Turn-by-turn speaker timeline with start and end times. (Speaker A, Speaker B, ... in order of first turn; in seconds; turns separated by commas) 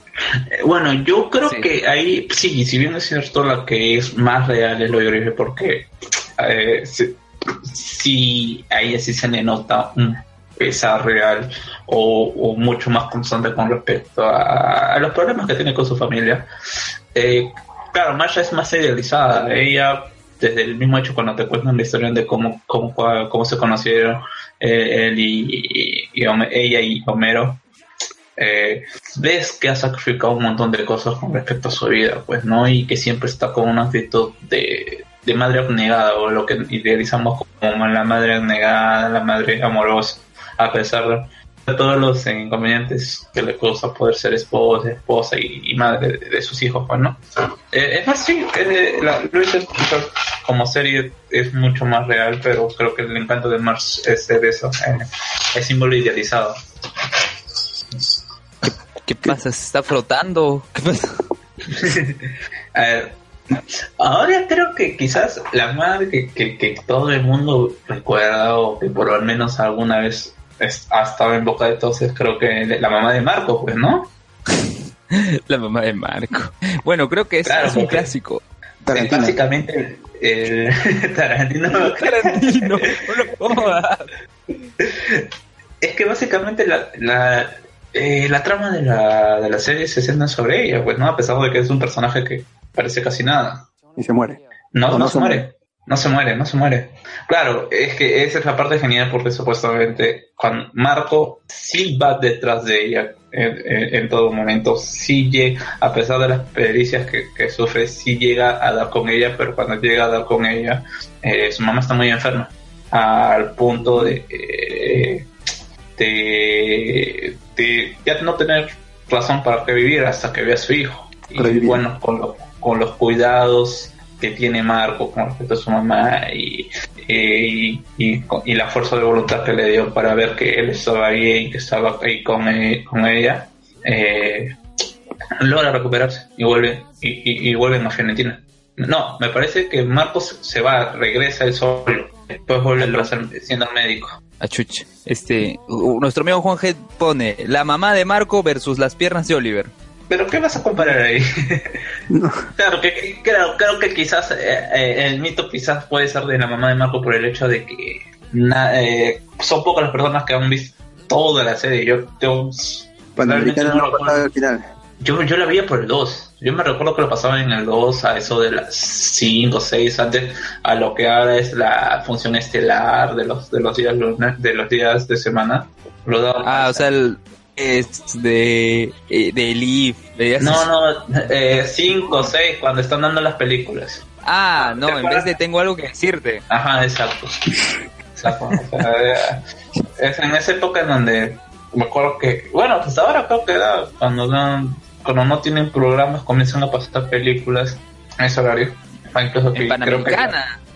Speaker A: 0.6-16.5, Speaker A: 17.1-27.6, Speaker A: 28.4-47.2, Speaker A: 47.7-56.6, Speaker B: 59.0-61.1, Speaker A: 61.7-63.2, Speaker A: 64.0-74.1, Speaker B: 75.1-78.4, Speaker A: 77.5-78.1, Speaker A: 78.8-83.7, Speaker C: 78.9-79.4, Speaker B: 81.9-84.1, Speaker A: 84.8-85.2, Speaker A: 85.8-93.7, Speaker C: 94.0-95.5, Speaker A: 94.7-115.3, Speaker C: 113.7-114.2, Speaker A: 116.0-134.5, Speaker C: 121.3-121.8, Speaker A: 135.4-144.2, Speaker B: 142.8-143.1, Speaker B: 144.4-149.7, Speaker A: 150.1-151.8, Speaker C: 152.1-152.5, Speaker A: 152.6-164.2, Speaker C: 163.2-164.6, Speaker A: 165.0-176.9, Speaker B: 176.4-180.7, Speaker A: 180.4-184.0, Speaker B: 184.2-186.4, Speaker A: 184.6-185.3, Speaker A: 186.5-189.4, Speaker A: 190.0-200.3, Speaker B: 199.5-200.6